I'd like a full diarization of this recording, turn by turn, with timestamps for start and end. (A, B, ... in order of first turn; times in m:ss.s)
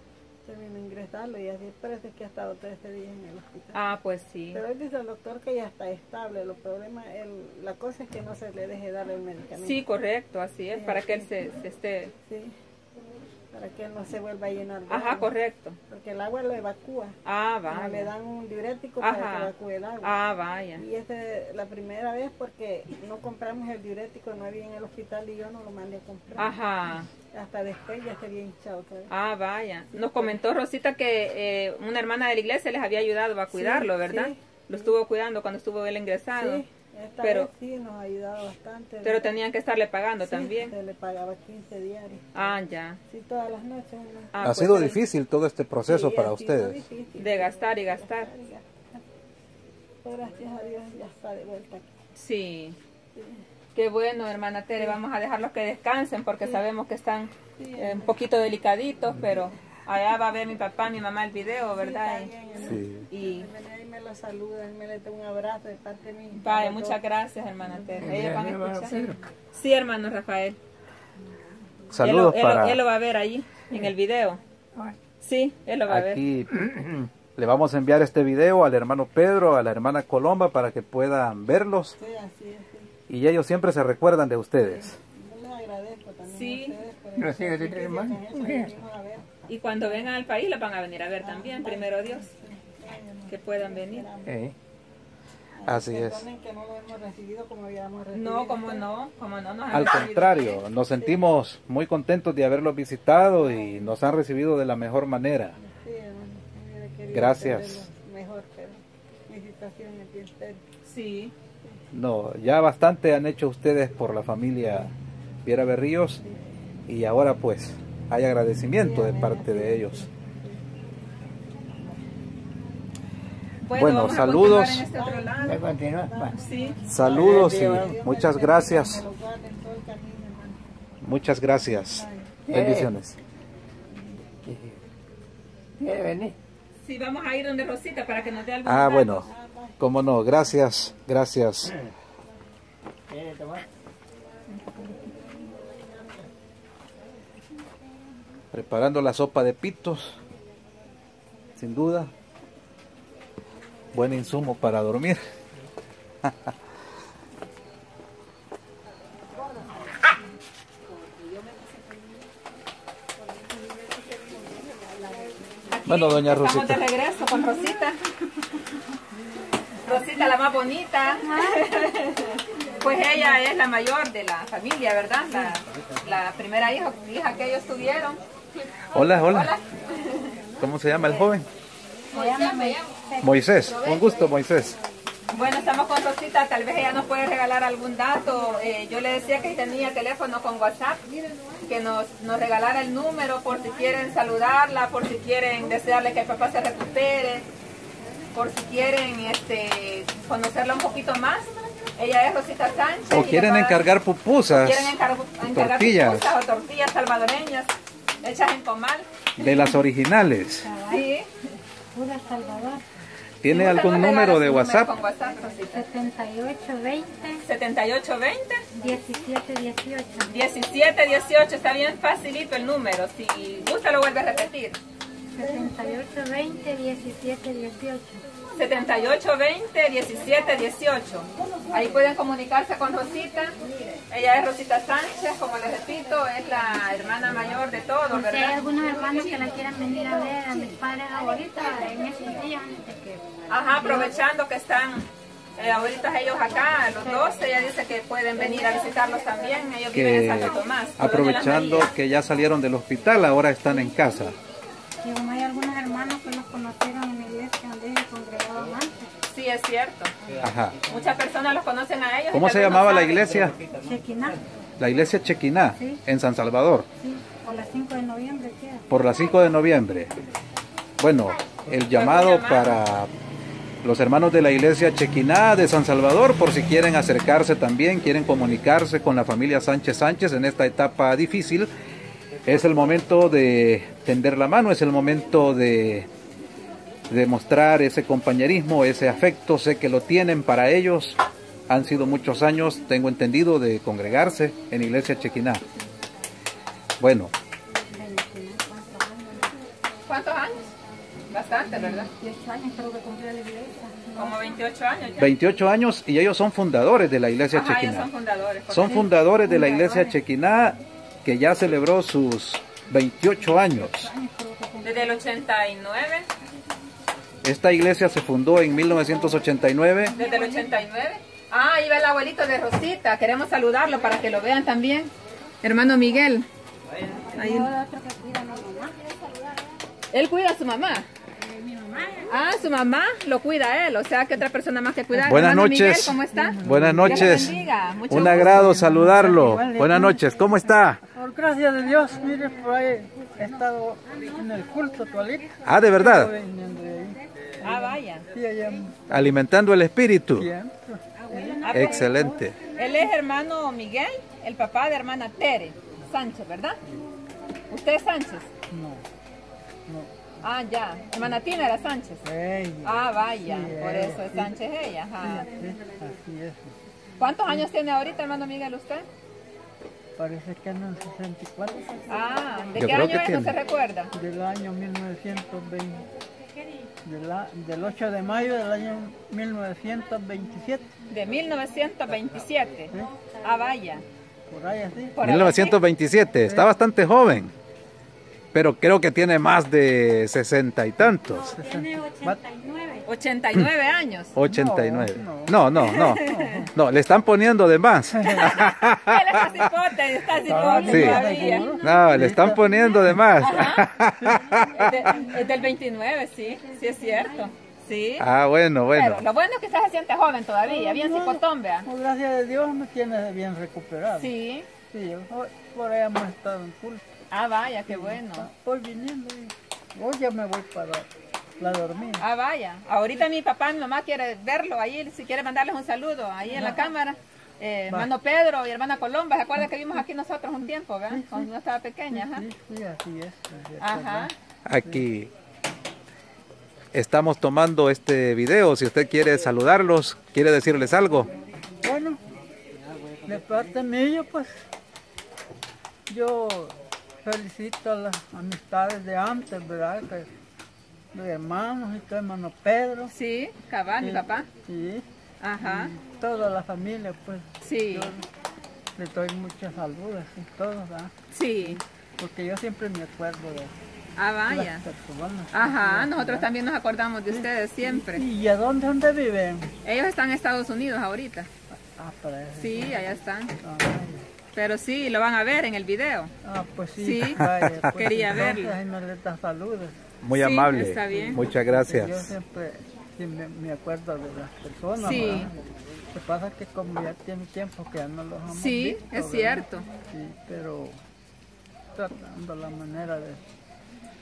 0:00.4-0:03.8 A
0:03.7-0:04.6 B
0:04.5-0:09.8 A
0:09.6-0:12.1 B
0:10.7-0:11.3 A
0:12.3-0:12.6 A
0:13.5-0:15.3 A
0:14.9-0:15.8 B
0:15.9-0:17.2 A
0:17.2-0:18.1 B
0:17.7-0:20.1 A
0:19.0-0:19.5 B
0:20.0-0:20.8 B
0:20.8-0:26.6 A
0:26.4-0:27.1 B
0:27.2-0:29.1 A
0:29.1-0:36.6 B
0:29.9-0:30.4 A
0:33.5-0:34.9 A
0:36.4-0:39.4 A
0:37.2-0:37.5 B
0:39.0-0:40.8 B
0:40.2-0:42.3 A
0:42.3-0:43.0 B
0:43.1-0:44.9 A
0:44.3-0:45.0 B
0:44.4-0:46.8 C
0:45.9-0:48.7 A
0:47.2-0:48.3 B
0:50.0-0:51.9 A
0:52.2-0:52.8 B
0:53.2-0:53.4 A
0:53.8-1:03.5 B
0:57.6-0:58.1 A
1:01.6-1:07.0 A
1:02.6-1:03.0 C
1:06.4-1:09.0 B
1:07.6-1:09.2 A
1:08.0-1:09.2 D
1:09.5-1:10.6 B
1:11.9-1:12.8 C
1:12.0-1:14.4 B
1:15.2-1:16.2 B
1:15.9-1:22.0 C
1:22.0-1:22.9 A
1:23.1-1:25.0 C
1:24.6-1:29.3 A
1:26.3-1:26.8 B
1:27.2-1:28.8 D
1:29.5-1:32.3 B
1:31.2-1:34.4 A
1:33.3-1:34.1 B
1:34.2-1:34.6 D
1:35.6-1:38.9 A
1:35.7-1:36.2 C
1:38.1-1:40.6 B
1:39.7-1:45.6 C
1:41.0-1:41.3 A
1:43.4-1:44.0 A
1:45.6-1:50.6 A
1:47.1-1:47.9 C
1:50.8-1:51.3 B
1:51.9-1:54.9 C
1:55.4-1:56.2 C
1:56.2-1:56.6 A
1:56.9-2:00.1 C
1:58.7-2:00.6 A
2:03.6-2:05.6 B
2:03.7-2:04.9 C
2:04.2-2:10.6 A
2:05.4-2:06.4 D
2:06.4-2:06.8 B
2:06.9-2:09.0 C
2:07.0-2:08.0 D
2:11.0-2:13.2 C
2:11.9-2:12.3 A
2:12.5-2:12.9 D
2:14.4-2:14.8 D
2:15.8-2:16.4 D
2:16.8-2:19.3 B
2:18.6-2:19.3 C
2:19.0-2:19.8 A
2:19.8-2:21.7 C
2:23.1-2:23.6 D
2:25.4-2:26.2 A
2:28.5-2:30.2 C
2:31.6-2:32.1 C
2:33.9-2:35.2 C
2:36.2-2:36.5 C
2:41.1-2:41.9 A
2:43.3-2:45.8 A
2:45.7-2:48.0 B
2:45.9-2:46.9 C
2:49.8-2:58.2 B
2:49.9-2:50.3 E
2:51.0-2:51.8 E
2:53.0-2:53.4 E
2:55.3-2:55.6 E
2:58.9-2:59.6 C
2:59.0-3:00.4 B
3:00.6-3:01.5 C
3:02.1-3:02.9 B
3:02.1-3:03.7 E
3:03.2-3:04.8 C
3:03.6-3:04.3 B
3:05.3-3:11.0 B
3:11.6-3:17.5 B
3:18.3-3:23.8 B
3:23.1-3:25.0 C
3:24.5-3:27.7 B
3:25.5-3:26.3 C
3:28.2-3:29.1 B
3:29.4-3:30.7 C
3:29.4-3:29.7 E
3:30.6-3:31.1 E
3:30.9-3:31.3 B
3:31.9-3:32.8 E
3:33.4-3:34.9 C
3:33.5-3:35.8 B
3:35.6-3:37.4 E
3:37.4-3:38.6 B
3:38.7-3:40.4 E
3:40.3-3:44.8 B
3:45.3-3:48.2 E
3:48.6-3:53.6 B
3:54.1-3:58.6 B
3:58.1-4:04.2 E
4:03.5-4:11.9 B
4:06.9-4:07.6 E
4:08.4-4:08.9 E
4:09.9-4:14.4 C
4:15.0-4:19.1 E
4:19.3-4:20.1 B
4:20.4-4:20.8 C
4:20.9-4:23.5 B
4:22.3-4:23.6 C
4:23.8-4:24.4 E
4:24.8-4:26.9 C
4:25.7-4:26.0 E
4:27.0-4:28.9 E
4:28.9-4:30.1 C
4:31.0-4:33.1 C
4:31.8-4:32.8 B
4:33.8-4:41.7 C
4:42.4-4:46.1 C
4:47.1-4:55.6 C
4:57.0-4:57.3 C
4:57.9-4:59.6 E
5:00.1-5:00.7 B
5:01.3-5:02.1 B
5:01.5-5:04.6 E
5:04.2-5:05.4 B
5:05.2-5:08.1 C
5:07.5-5:09.1 B
5:08.7-5:14.1 C
5:08.9-5:10.2 E
5:13.5-5:15.2 E
5:14.8-5:16.3 B
5:17.4-5:20.1 C
5:20.1-5:20.9 E
5:20.2-5:26.5 B
5:27.3-5:29.0 E
5:27.4-5:27.7 B
5:30.1-5:31.1 B
5:31.4-5:32.4 E
5:32.3-5:38.8 B
5:35.2-5:37.6 C
5:36.2-5:40.4 F
5:38.1-5:41.0 C
5:41.0-5:49.4 F
5:41.8-5:42.6 E
5:43.4-5:46.3 E
5:45.6-5:46.3 C
5:47.6-5:48.3 B
5:49.1-5:50.5 C
5:50.3-5:52.2 F
5:51.2-5:53.1 E
5:51.6-5:52.0 B
5:51.7-5:52.6 C
5:52.8-5:56.8 B
5:57.7-5:58.5 B
5:58.7-5:59.0 F
5:59.9-6:00.1 F
6:00.4-6:02.2 B
6:02.2-6:04.6 F
6:02.8-6:05.5 B
6:05.2-6:06.7 F
6:07.2-6:09.1 B
6:10.2-6:13.1 F
6:12.1-6:14.1 B
6:12.2-6:12.9 E
6:12.8-6:13.6 C
6:14.1-6:16.1 F
6:16.4-6:16.9 E
6:17.0-6:20.9 F
6:21.1-6:22.9 B
6:23.0-6:23.7 E
6:23.4-6:24.0 B
6:24.5-6:25.4 F
6:25.2-6:25.8 B
6:25.2-6:27.5 C
6:26.4-6:26.8 F
6:28.5-6:31.6 C
6:31.1-6:32.4 F
6:31.2-6:33.1 E
6:33.1-6:34.4 B
6:34.4-6:39.5 C
6:34.4-6:36.7 F
6:35.8-6:36.7 B
6:38.2-6:38.5 F
6:38.4-6:41.7 B
6:40.4-6:43.3 E
6:40.5-6:43.2 F
6:40.9-6:41.2 C
6:41.8-6:45.0 C
6:43.4-6:43.9 B
6:44.4-6:45.8 E
6:44.8-6:48.3 B
6:46.4-6:47.6 E
6:48.2-6:49.3 C
6:48.9-6:51.9 B
6:50.7-6:54.3 F
6:54.2-6:54.7 B
6:54.9-6:57.2 F
6:57.3-6:58.5 B
6:57.9-7:01.1 F
7:01.6-7:02.2 F
7:02.2-7:12.5 B
7:06.4-7:06.8 F
7:11.1-7:11.5 F
7:12.1-7:15.0 F
7:13.8-7:14.3 B
7:14.7-7:15.3 C
7:16.9-7:21.3 C
7:21.8-7:22.2 F
7:23.2-7:24.6 F
7:26.1-7:30.3 F
7:31.1-7:33.1 F
7:33.1-7:34.5 B
7:34.0-7:35.0 F
7:35.4-7:35.9 B
7:35.6-7:38.3 F
7:37.6-7:38.1 B
7:39.0-7:43.8 F
7:41.3-7:41.8 B
7:44.2-7:44.9 B
7:44.5-7:46.5 F
7:45.5-7:48.3 B
7:47.3-7:49.7 F
7:49.8-7:51.5 B
7:51.7-7:53.1 F
7:52.6-7:53.6 B
7:53.6-7:54.3 F
7:54.6-7:56.3 B
7:56.4-8:00.0 F
7:57.0-7:58.8 B
7:57.4-7:57.9 C
8:00.2-8:02.3 C
8:00.3-8:01.4 B
8:00.8-8:05.6 F
8:05.0-8:05.5 B
8:06.1-8:11.0 F
8:08.5-8:09.9 B
8:11.9-8:13.4 F